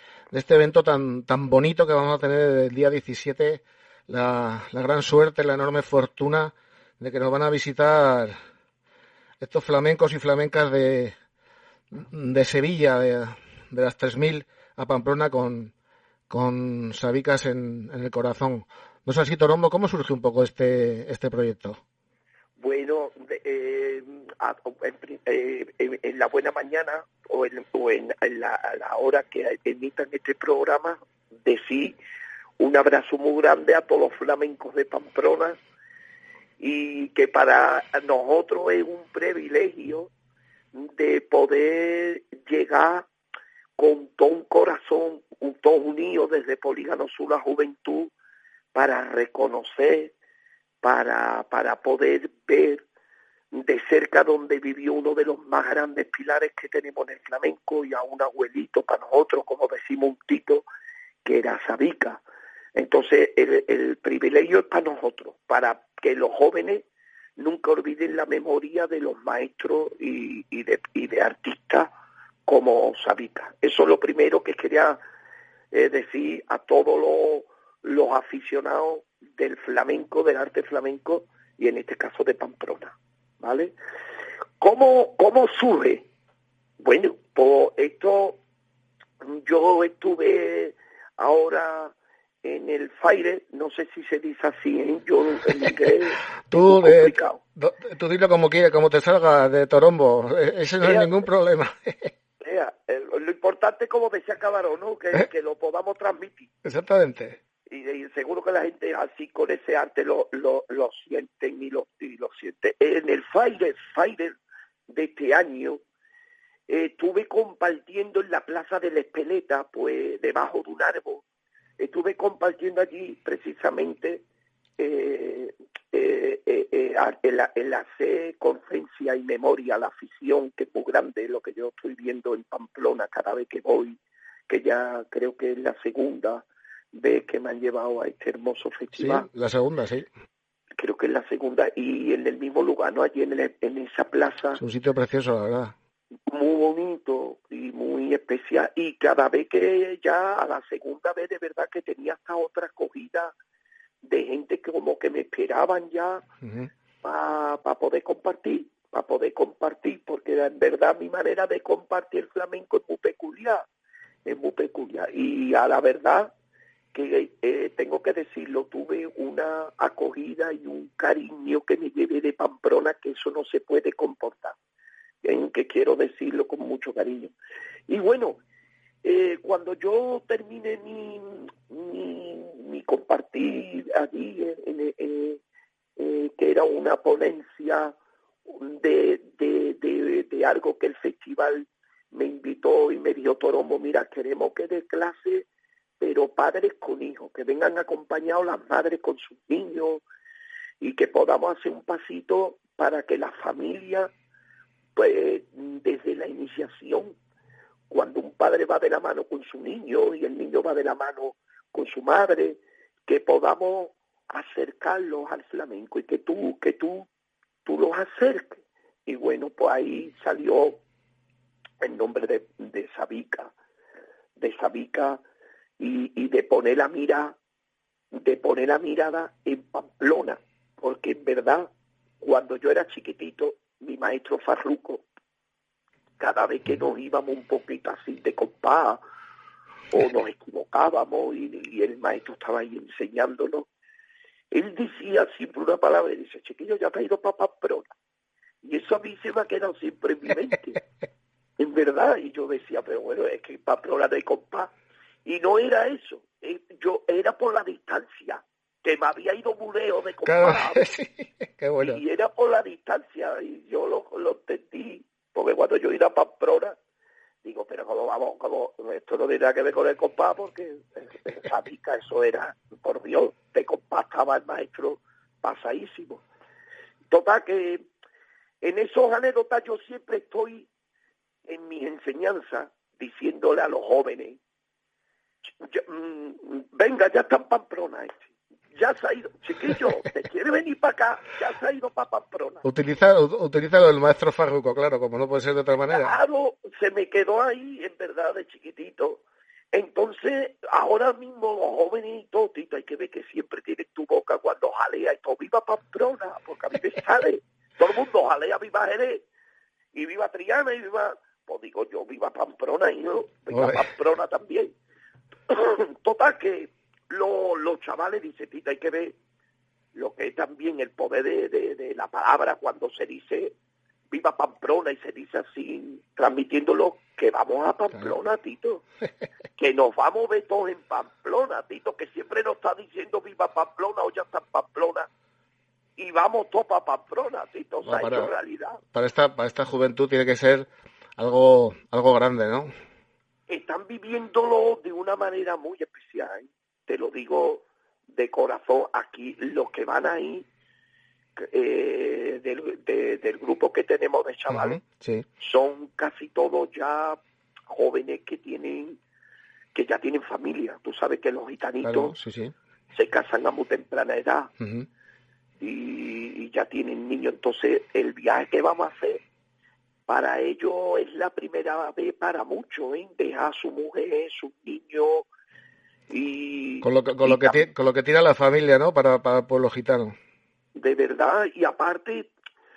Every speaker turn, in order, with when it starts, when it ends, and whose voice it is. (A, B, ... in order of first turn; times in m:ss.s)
0:00.3-0:08.4 A
0:09.4-0:11.1 A
0:11.9-0:15.7 A
0:16.3-0:21.8 A
0:22.6-0:32.0 B
0:32.6-0:35.6 B
0:36.6-0:40.1 B
0:40.7-0:43.1 B
0:43.8-0:48.1 B
0:48.7-0:50.1 B
0:50.8-0:52.8 B
0:53.5-1:00.6 B
1:01.2-1:02.2 B
1:02.8-1:06.8 B
1:07.4-1:11.9 B
1:12.5-1:15.0 B
1:15.7-1:23.7 B
1:24.6-1:26.0 B
1:26.8-1:28.4 B
1:29.2-1:31.9 B
1:32.4-1:37.4 B
1:36.5-1:42.1 A
1:40.8-1:41.1 B
1:42.4-1:46.5 B
1:46.6-1:47.4 A
1:47.7-1:54.4 B
1:54.9-1:55.8 B
1:56.7-2:01.2 B
2:01.8-2:04.2 B
2:04.8-2:19.3 B
2:18.9-2:20.0 A
2:20.8-2:24.6 B
2:24.6-2:25.7 A
2:26.3-2:33.3 B
2:34.0-2:36.2 B
2:36.4-2:36.7 A
2:37.0-2:43.6 B
2:44.2-2:46.3 B
2:46.9-2:54.6 B
2:55.2-2:57.3 B
2:57.9-2:58.4 B
2:59.0-3:05.4 B
3:06.0-3:08.0 B
3:08.5-3:15.4 B
3:16.0-3:20.0 B
3:20.8-3:24.1 B
3:25.0-3:27.1 B
3:27.9-3:37.0 B
3:37.6-3:40.8 B
3:41.8-3:43.5 B
3:44.4-3:45.2 B
3:45.8-3:47.4 B
3:48.1-3:51.7 B
3:52.2-3:55.0 B
3:56.2-3:59.0 B
3:59.9-4:03.6 B
4:04.5-4:07.9 B
4:08.6-4:10.8 B
4:11.6-4:14.7 B
4:15.2-4:20.8 B
4:20.2-4:22.0 A
4:21.8-4:26.8 B
4:27.4-4:36.2 B
4:37.1-4:37.8 B
4:38.6-4:40.7 B
4:41.5-4:44.4 B
4:45.6-4:52.6 B
4:52.6-4:56.1 A
4:55.9-4:59.2 B
4:59.7-5:09.2 B
5:09.9-5:14.7 B
5:13.5-5:13.9 A
5:15.5-5:19.2 B
5:19.9-5:23.5 B
5:24.1-5:28.8 B
5:29.6-5:35.1 B
5:36.0-5:38.8 B
5:37.8-5:38.3 A
5:38.9-5:42.7 A
5:43.5-5:50.4 B
5:51.4-5:54.8 B
5:54.5-5:55.2 A
5:55.4-5:57.2 B
5:57.7-5:59.0 B
5:59.7-6:02.2 B
6:01.8-6:02.5 A
6:02.9-6:04.5 B
6:04.6-6:04.8 A
6:05.6-6:09.2 B
6:10.1-6:15.3 B
6:16.1-6:17.6 B
6:16.8-6:20.1 A
6:20.8-6:22.3 B